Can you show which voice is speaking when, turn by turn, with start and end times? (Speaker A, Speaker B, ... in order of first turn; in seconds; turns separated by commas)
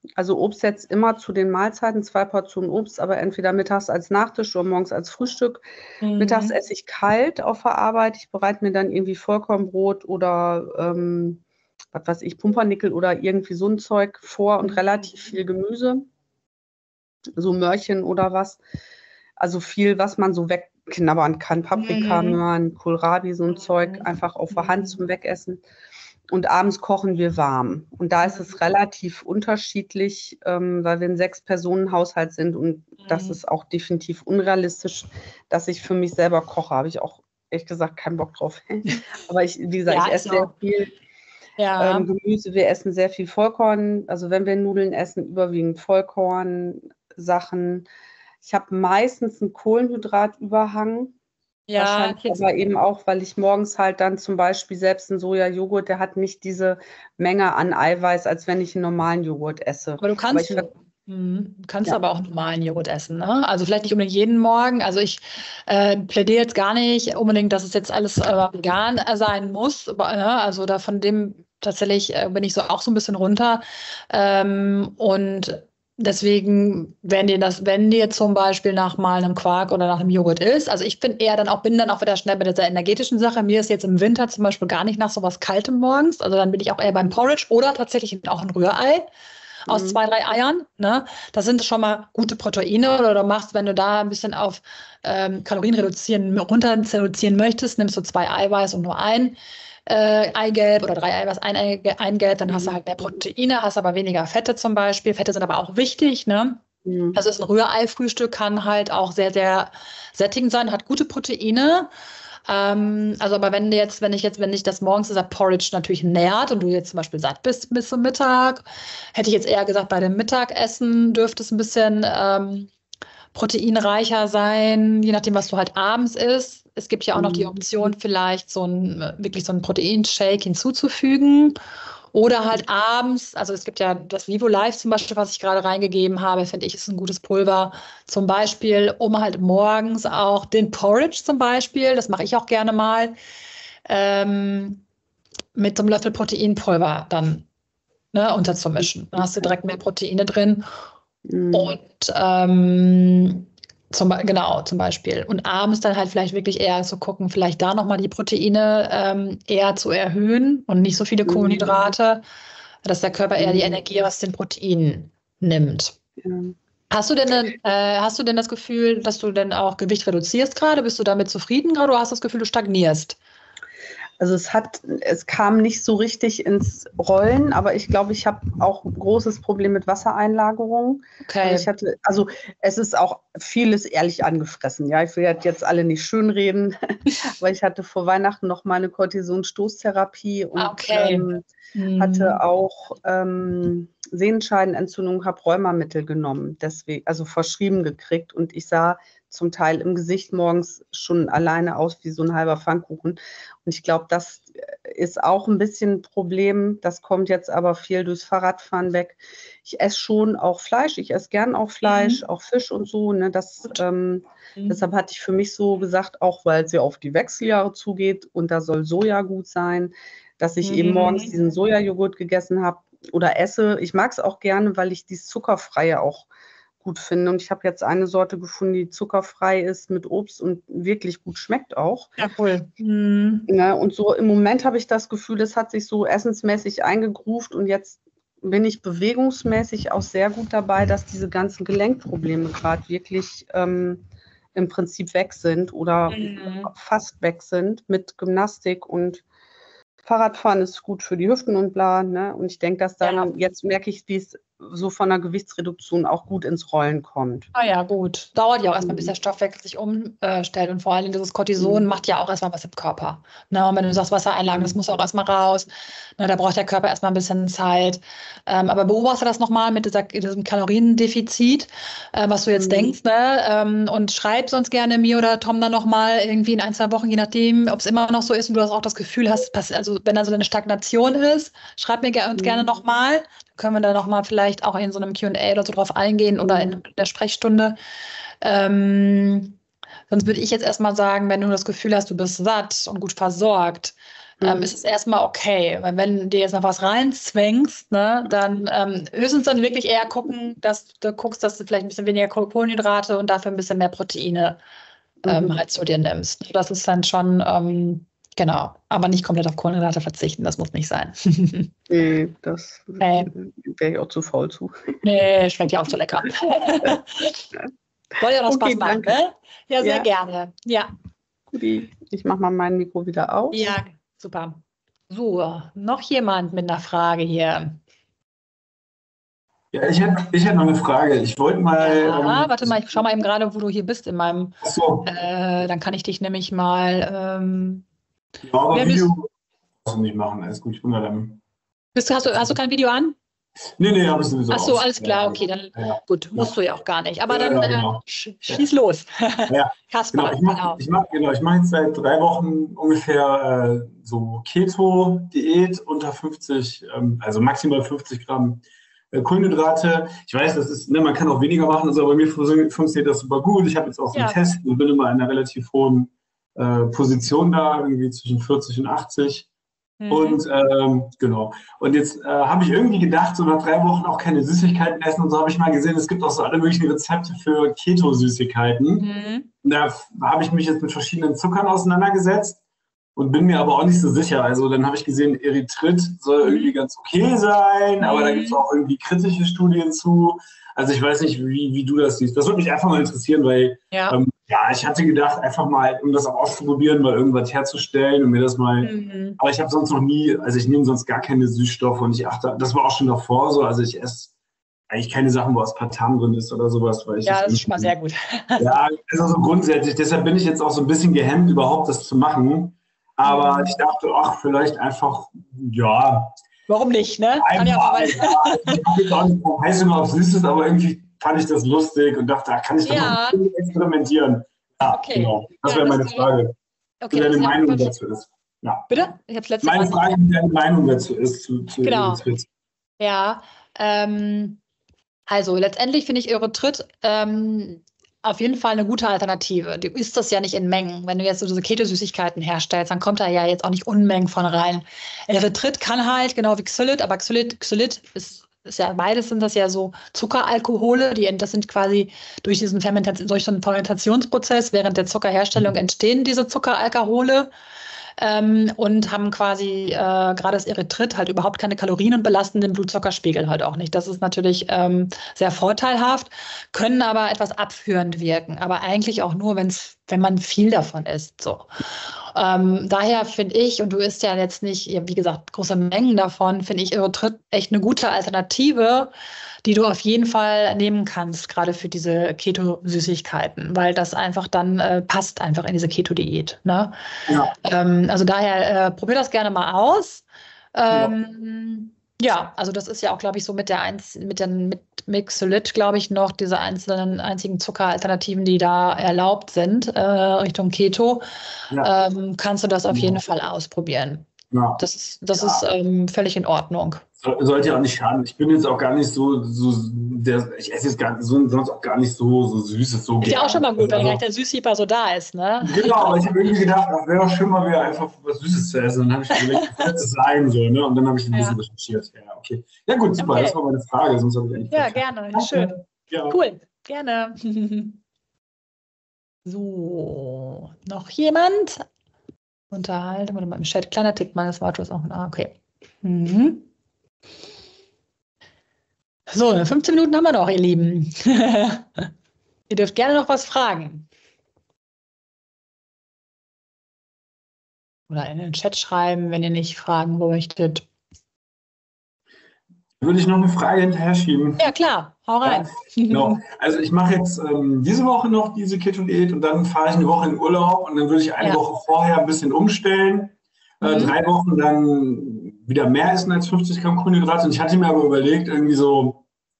Speaker A: 0.2-5.6, Speaker B: 6.0-6.5, Speaker A: 6.2-11.4, Speaker A: 11.9-16.1, Speaker A: 17.4-18.6, Speaker A: 19.4-25.6, Speaker B: 21.8-22.4, Speaker B: 24.5-24.9, Speaker A: 26.3-40.9, Speaker B: 33.1-33.4, Speaker B: 39.9-40.5, Speaker B: 41.6-42.1, Speaker A: 41.8-47.9, Speaker A: 48.4-51.1, Speaker B: 51.7-52.4, Speaker A: 51.8-60.7, Speaker B: 60.0-89.1, Speaker B: 89.7-106.6, Speaker A: 89.7-90.0, Speaker A: 102.5-102.8, Speaker A: 106.8-107.2, Speaker B: 107.2-111.9, Speaker B: 112.5-122.7, Speaker B: 123.3-131.6, Speaker A: 127.2-127.5, Speaker B: 132.1-143.2, Speaker B: 143.9-144.8, Speaker B: 145.6-147.5, Speaker B: 148.1-150.7, Speaker A: 151.3-151.8, Speaker B: 151.5-162.2, Speaker A: 161.3-161.8, Speaker B: 162.8-166.0, Speaker A: 163.4-163.8, Speaker A: 166.2-166.6, Speaker B: 166.9-173.2, Speaker A: 174.2-191.4, Speaker B: 181.3-181.7, Speaker B: 190.6-191.2, Speaker B: 191.8-192.4, Speaker A: 192.0-226.3, Speaker B: 211.9-212.2, Speaker B: 220.6-221.3, Speaker A: 226.8-232.2, Speaker B: 232.2-233.5, Speaker A: 233.5-249.2, Speaker B: 246.1-246.7, Speaker A: 250.0-257.5, Speaker B: 253.0-253.3, Speaker B: 257.6-287.8, Speaker A: 258.8-259.1, Speaker A: 261.6-261.8, Speaker A: 272.6-272.9, Speaker A: 282.4-282.6, Speaker A: 286.5-286.8, Speaker B: 288.4-289.6, Speaker B: 290.1-304.6, Speaker A: 294.4-294.7, Speaker A: 305.2-305.6, Speaker B: 305.3-311.7, Speaker A: 311.9-315.0, Speaker B: 313.0-313.3, Speaker B: 315.0-317.5, Speaker B: 318.2-320.9, Speaker A: 318.5-319.1, Speaker A: 319.8-320.1, Speaker A: 321.5-323.8, Speaker B: 323.5-327.8, Speaker C: 329.7-332.8, Speaker B: 331.8-337.8, Speaker C: 334.6-335.1, Speaker C: 338.4-339.3, Speaker B: 338.7-339.1, Speaker C: 339.9-341.4, Speaker B: 341.9-343.2, Speaker C: 343.8-346.5, Speaker B: 344.5-350.8, Speaker C: 347.3-348.6, Speaker C: 349.5-369.5, Speaker B: 364.1-364.4, Speaker B: 370.0-370.4, Speaker C: 370.1-379.1, Speaker B: 379.0-379.5, Speaker C: 379.6-382.6, Speaker C: 383.2-404.3, Speaker B: 386.4-386.8, Speaker B: 388.0-388.6, Speaker B: 393.9-394.2, Speaker B: 398.8-399.4, Speaker C: 404.9-407.9, Speaker B: 407.2-408.8, Speaker C: 408.6-416.4, Speaker B: 413.2-413.7, Speaker B: 416.7-418.8, Speaker C: 417.4-426.6, Speaker B: 422.8-423.4, Speaker B: 424.9-426.3, Speaker B: 427.0-427.9, Speaker C: 427.1-428.9, Speaker B: 428.9-430.1, Speaker C: 429.6-432.5, Speaker B: 431.8-432.2, Speaker B: 433.0-434.6, Speaker B: 435.3-457.5, Speaker B: 458.2-471.7, Speaker B: 472.4-479.1, Speaker B: 479.6-486.9, Speaker C: 487.3-487.5, Speaker B: 487.6-501.3, Speaker B: 501.8-507.0, Speaker C: 502.9-503.2, Speaker C: 504.5-504.8, Speaker C: 505.3-505.6, Speaker C: 507.2-514.2, Speaker B: 513.2-516.2, Speaker C: 515.6-526.4, Speaker B: 519.4-519.9, Speaker B: 521.3-521.6, Speaker B: 523.2-523.6, Speaker B: 524.7-528.0, Speaker B: 529.5-531.9, Speaker B: 532.7-536.7, Speaker B: 539.3-542.1, Speaker B: 542.7-544.1, Speaker B: 548.1-550.9, Speaker C: 553.0-554.7, Speaker B: 554.6-556.4, Speaker C: 555.4-569.2, Speaker B: 563.8-564.2